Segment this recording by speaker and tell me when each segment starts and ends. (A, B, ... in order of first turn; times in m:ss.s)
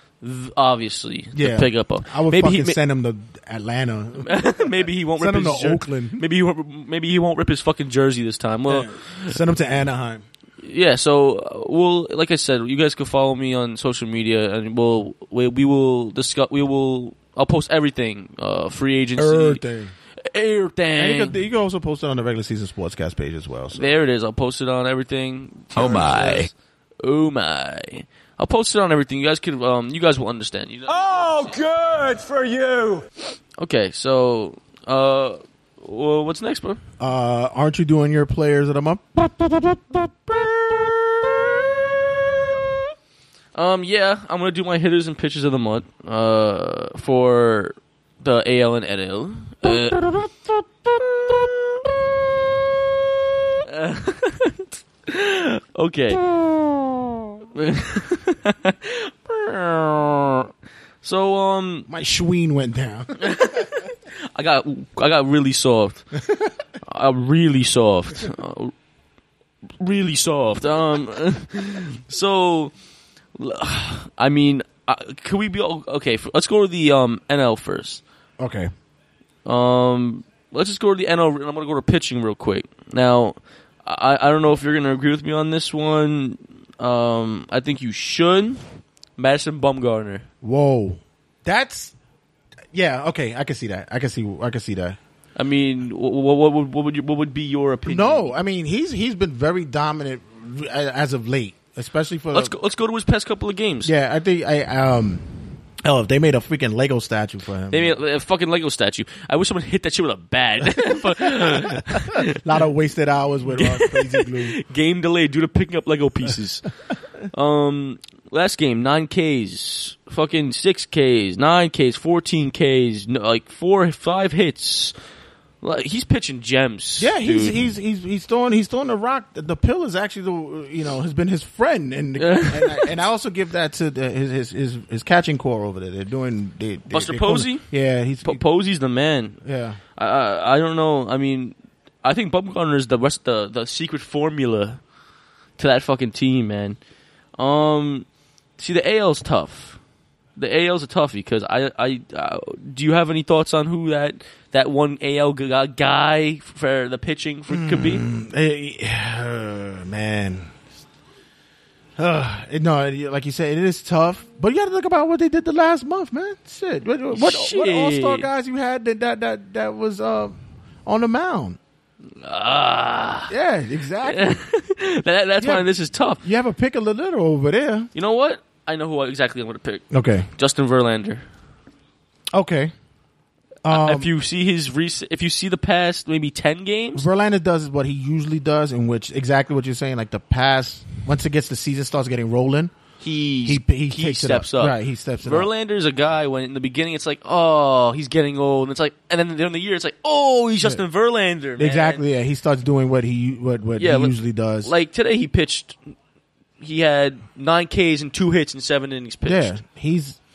0:00.2-0:02.8 A
0:01.3-0:06.2 B
0:04.2-0:09.4 A
0:08.7-0:10.2 B
0:10.6-0:19.6 A
0:19.2-0:19.9 B
0:20.3-0:21.3 A
0:21.0-0:24.0 B
0:23.7-0:26.5 A
0:25.7-0:26.5 B
0:25.9-0:26.4 C
0:27.0-0:31.6 A
0:30.9-0:33.0 C
0:33.6-0:36.8 A
0:37.0-0:39.6 B
0:43.5-0:50.3 A
0:53.6-0:56.3 A
0:57.5-1:00.5 A
1:01.0-1:01.9 A
1:01.9-1:03.6 B
1:03.2-1:06.0 A
1:06.2-1:06.5 B
1:06.8-1:08.7 A
1:09.8-1:12.7 A
1:13.4-1:18.0 A
1:18.4-1:18.7 B
1:19.4-1:28.6 A
1:29.2-1:30.2 A
1:30.4-1:31.9 B
1:32.7-1:35.0 B
1:35.4-1:38.3 A
1:37.8-1:42.5 B
1:42.3-1:43.9 A
1:43.8-1:45.2 B
1:45.8-1:48.0 B
1:47.7-1:52.4 A
1:50.7-1:54.6 B
1:53.5-1:56.7 A
1:57.3-2:05.0 A
2:05.6-2:07.6 A
2:07.0-2:18.4 B
2:12.2-2:12.9 A
2:16.9-2:17.7 A
2:18.2-2:19.4 A
2:19.4-2:19.8 B
2:20.0-2:24.8 A
2:25.6-2:26.8 A
2:27.4-2:28.0 A
2:28.6-2:29.8 A
2:30.4-2:38.0 A
2:37.5-2:40.5 B
2:42.0-2:51.6 B
2:47.1-2:48.3 A
2:52.2-2:53.3 A
2:53.3-2:54.3 B
2:54.0-2:56.2 A
2:55.4-2:57.9 B
2:57.9-3:01.2 A
2:59.9-3:00.3 B
3:02.3-3:02.7 B
3:03.6-3:04.1 B
3:03.7-3:07.0 A
3:06.9-3:12.7 B
3:13.0-3:22.0 A
3:13.4-3:15.5 B
3:21.6-3:24.7 B
3:23.8-3:25.8 A
3:26.6-3:29.6 A
3:29.2-3:30.2 B